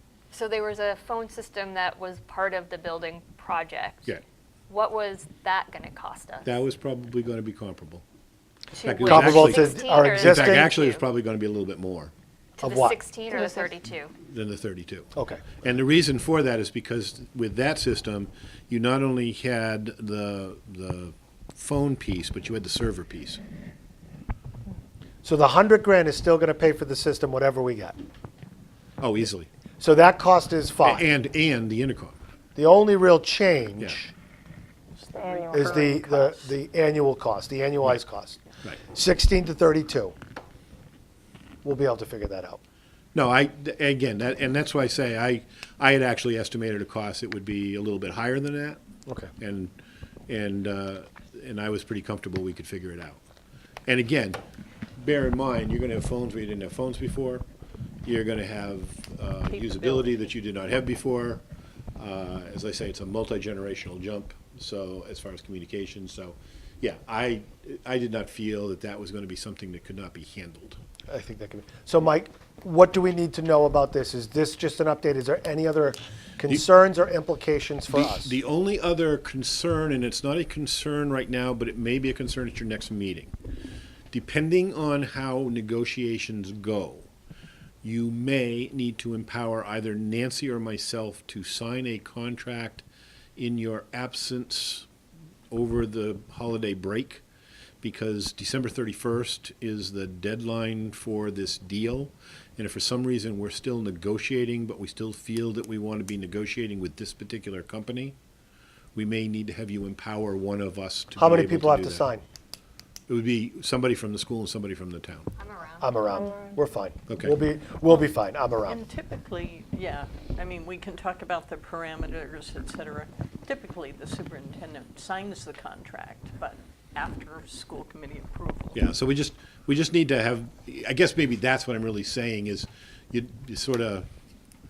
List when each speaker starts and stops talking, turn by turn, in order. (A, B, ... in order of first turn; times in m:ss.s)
0:00.3-0:06.5 A
0:06.4-0:08.0 B
0:08.7-0:11.0 A
0:08.8-0:12.1 B
0:09.0-0:10.7 C
0:12.6-0:14.1 A
0:12.6-0:13.0 C
0:13.3-0:13.6 D
0:14.2-0:15.1 B
0:15.1-0:15.4 C
0:15.6-0:23.4 B
0:25.2-0:28.0 C
0:29.0-0:29.5 B
0:29.8-0:31.0 C
0:30.8-0:32.2 B
0:32.6-0:34.1 C
0:35.0-0:36.5 D
0:35.5-0:40.1 C
0:41.6-0:42.6 C
0:43.1-0:48.8 B
0:49.4-0:49.7 B
0:50.3-0:53.2 B
0:53.9-0:54.4 B
0:55.0-0:57.4 B
0:58.0-1:01.4 B
0:59.5-1:00.2 D
1:02.0-1:10.8 B
1:11.1-1:18.4 C
1:17.9-1:23.3 B
1:24.1-1:27.1 B
1:27.8-1:32.8 B
1:33.4-1:34.9 B
1:35.5-1:37.2 B
1:37.8-1:48.2 B
1:48.9-1:52.0 B
1:51.2-1:52.2 C
1:53.1-1:55.3 B
1:55.4-1:55.9 A
1:55.8-1:58.8 C
1:57.1-1:57.3 B
1:58.6-2:08.8 D
2:08.7-2:14.1 B